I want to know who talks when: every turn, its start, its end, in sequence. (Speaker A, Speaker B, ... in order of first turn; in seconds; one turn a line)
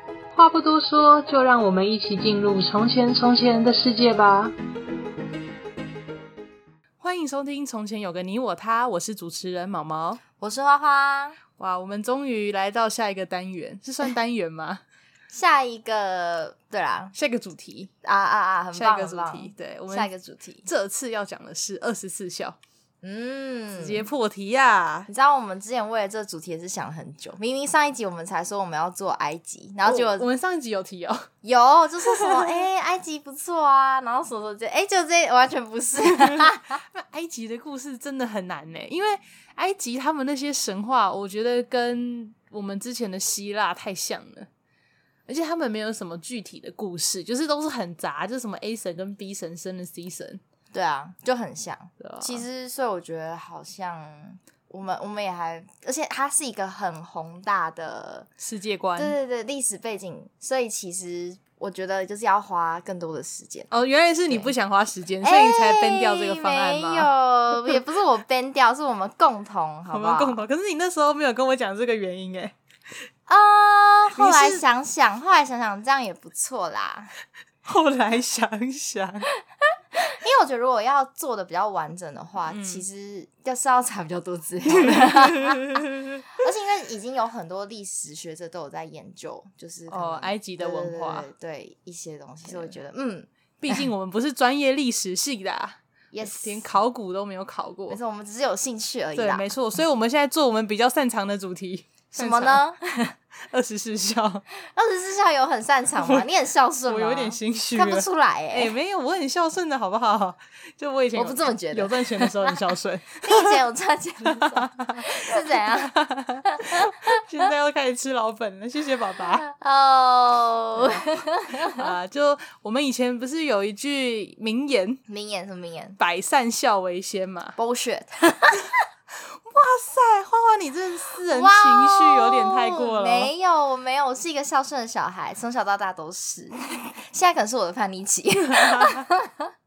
Speaker A: 0.3-4.5
Speaker B: 7.0-10.2
Speaker C: 10.4-11.4
Speaker B: 11.6-14.8
Speaker C: 15.3-17.1
Speaker B: 17.1-17.9
Speaker C: 18.0-20.7
Speaker B: 18.7-20.1
Speaker B: 20.6-22.6
Speaker C: 23.0-24.1
Speaker B: 23.7-25.1
Speaker C: 25.1-30.3
Speaker B: 29.9-31.3
Speaker C: 31.4-36.8
Speaker B: 32.1-32.6
Speaker B: 36.0-44.5
Speaker B: 45.3-50.4
Speaker C: 50.7-58.3
Speaker B: 52.0-52.5
Speaker B: 58.4-59.2
Speaker C: 59.0-63.7
Speaker B: 63.7-67.8
Speaker C: 65.2-70.4
Speaker B: 69.9-72.5
Speaker C: 73.3-77.1
Speaker B: 74.2-74.6
Speaker B: 77.7-79.3
Speaker C: 80.0-85.8
Speaker B: 82.5-82.8
Speaker B: 84.7-86.3
Speaker C: 86.4-93.3
Speaker B: 89.9-91.3
Speaker B: 92.5-92.7
Speaker B: 93.6-98.0
Speaker C: 96.1-96.7
Speaker C: 97.9-99.5
Speaker B: 99.2-102.6
Speaker C: 102.2-103.1
Speaker B: 103.5-104.4
Speaker C: 104.7-108.7
Speaker B: 106.0-106.3
Speaker B: 106.9-113.6
Speaker C: 111.2-112.6
Speaker C: 113.2-116.0
Speaker B: 114.3-119.4
Speaker C: 116.5-117.1
Speaker C: 119.4-121.9
Speaker B: 120.8-121.1
Speaker B: 121.7-125.0
Speaker C: 125.1-126.0
Speaker B: 126.0-127.6
Speaker C: 127.6-128.7
Speaker B: 129.4-133.3
Speaker C: 131.3-139.4
Speaker B: 138.5-139.1